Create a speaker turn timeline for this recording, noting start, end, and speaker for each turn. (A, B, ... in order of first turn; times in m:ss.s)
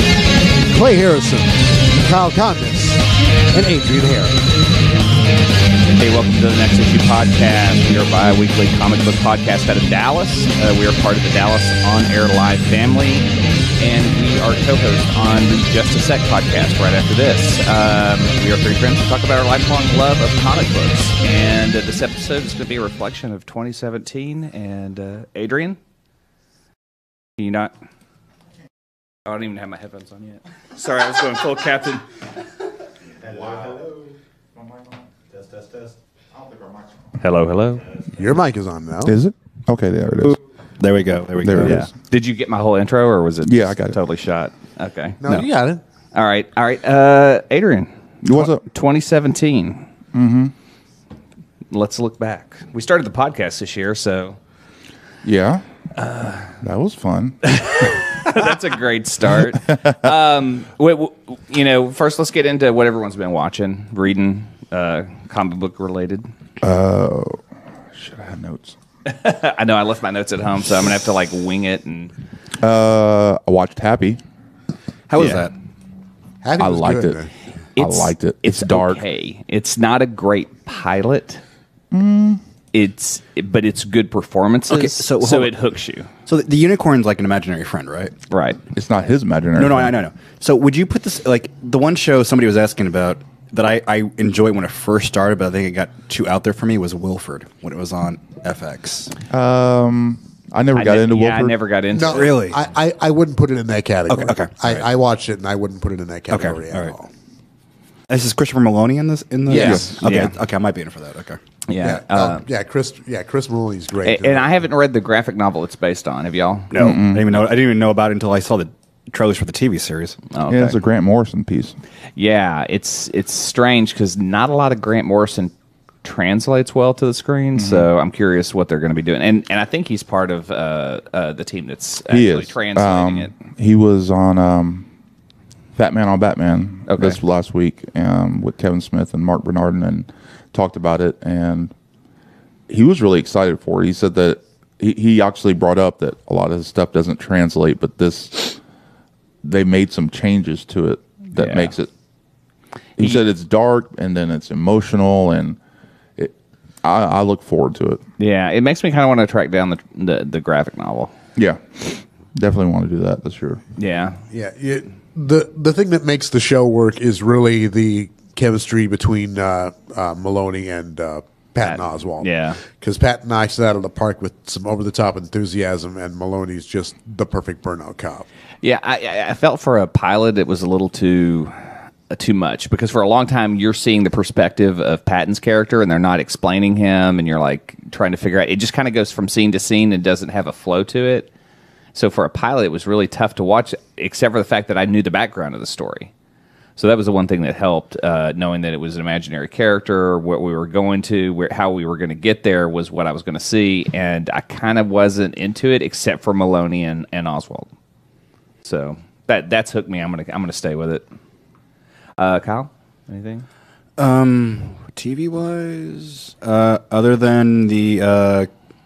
0:00.6-0:04.4 A
0:06.0-0:13.2 B
0:13.8-0:25.8 B
0:27.4-0:27.7 B
0:29.2-0:32.0 B
0:33.4-0:33.8 C
0:37.2-0:37.8 B
0:38.2-0:39.1 A
0:39.0-0:40.4 D
0:40.3-0:41.8 C
0:41.4-0:41.9 D
0:41.6-0:45.4 B
0:43.4-0:44.0 D
0:45.2-0:45.8 A
0:46.1-0:49.8 B
0:48.2-0:48.6 D
0:50.1-0:50.5 D
0:51.7-0:54.4 B
0:55.2-0:55.6 D
0:56.0-0:56.5 B
0:56.6-0:57.5 D
0:57.5-1:06.3 B
1:06.6-1:07.4 D
1:07.9-1:08.8 D
1:09.0-1:12.1 B
1:12.6-1:14.2 D
1:15.1-1:15.5 C
1:16.4-1:17.3 A
1:16.6-1:17.2 D
1:17.8-1:21.4 B
1:17.8-1:19.0 D
1:21.9-1:22.4 D
1:22.7-1:26.1 B
1:24.7-1:25.5 C
1:26.3-1:28.1 C
1:28.3-1:28.6 B
1:28.7-1:29.9 D
1:29.6-1:39.1 C
1:39.3-1:41.6 D
1:40.8-1:42.4 B
1:41.9-1:47.1 A
1:42.1-1:42.6 C
1:44.1-1:44.8 C
1:46.3-1:46.9 C
1:48.1-1:51.4 C
1:49.5-1:50.0 A
1:49.5-1:50.3 B
1:51.7-1:52.4 B
1:51.8-1:54.7 A
1:54.0-1:56.7 B
1:56.7-2:00.2 C
1:56.7-1:57.3 D
2:00.3-2:00.8 B
2:00.5-2:01.7 D
2:02.2-2:05.5 B
2:06.0-2:13.3 B
2:07.5-2:07.9 D
2:12.1-2:14.9 D
2:15.8-2:21.7 D
2:16.9-2:17.2 B
2:22.7-2:28.6 D
2:29.4-2:31.9 D
2:31.3-2:31.7 B
2:33.0-2:35.6 D
2:36.2-2:38.0 D
2:38.2-2:41.1 B
2:41.4-2:43.6 D
2:43.8-2:44.2 B
2:44.3-2:58.2 A
2:51.6-2:52.6 B
2:58.6-3:01.6 B
3:02.1-3:11.3 B
3:11.9-3:16.1 B
3:16.8-3:27.7 B
3:28.6-3:31.0 B
3:32.2-3:33.4 B
3:34.0-3:38.5 C